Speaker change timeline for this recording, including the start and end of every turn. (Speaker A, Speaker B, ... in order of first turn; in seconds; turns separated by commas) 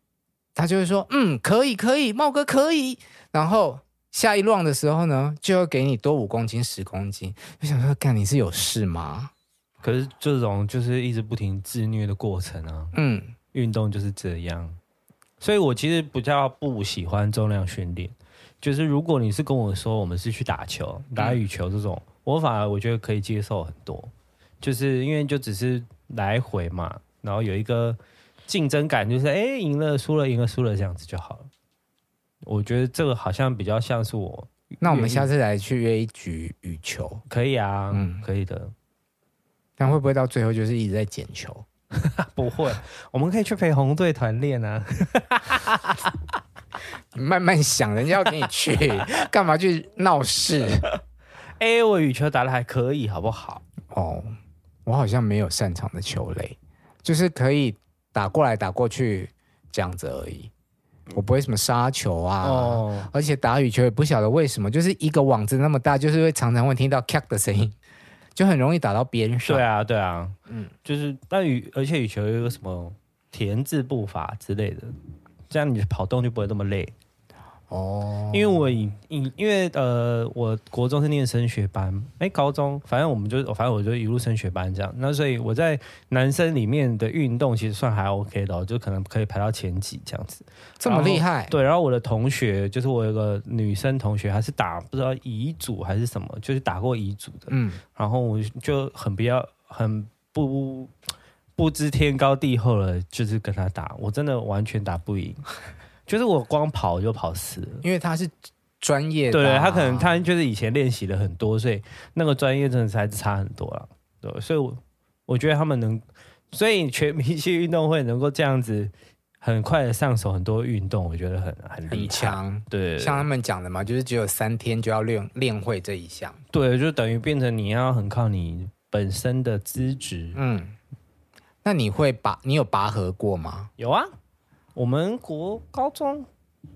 Speaker A: 0.6-9.3, Speaker B: 9.8-12.9, Speaker A: 12.9-13.3, Speaker B: 13.5-14.8, Speaker B: 15.4-31.5, Speaker B: 32.4-35.3, Speaker A: 34.8-37.2, Speaker B: 37.3-38.7, Speaker A: 37.9-38.2, Speaker A: 39.8-41.6, Speaker B: 42.0-46.1, Speaker A: 47.1-50.9, Speaker B: 51.6-53.6, Speaker A: 53.9-54.3, Speaker A: 54.9-60.5, Speaker A: 61.1-67.8, Speaker B: 62.4-63.1, Speaker A: 68.3-69.6, Speaker B: 69.5-70.3, Speaker B: 70.8-74.9, Speaker B: 75.5-76.9, Speaker A: 77.7-78.7, Speaker B: 78.3-100.9, Speaker A: 90.8-91.5, Speaker A: 97.5-97.8, Speaker B: 101.6-105.5, Speaker B: 106.1-107.8, Speaker A: 107.8-110.2, Speaker B: 109.3-123.3, Speaker A: 121.9-126.4, Speaker B: 126.5-130.4, Speaker A: 130.3-130.8, Speaker A: 131.6-133.7, Speaker B: 133.8-134.1, Speaker B: 134.8-136.3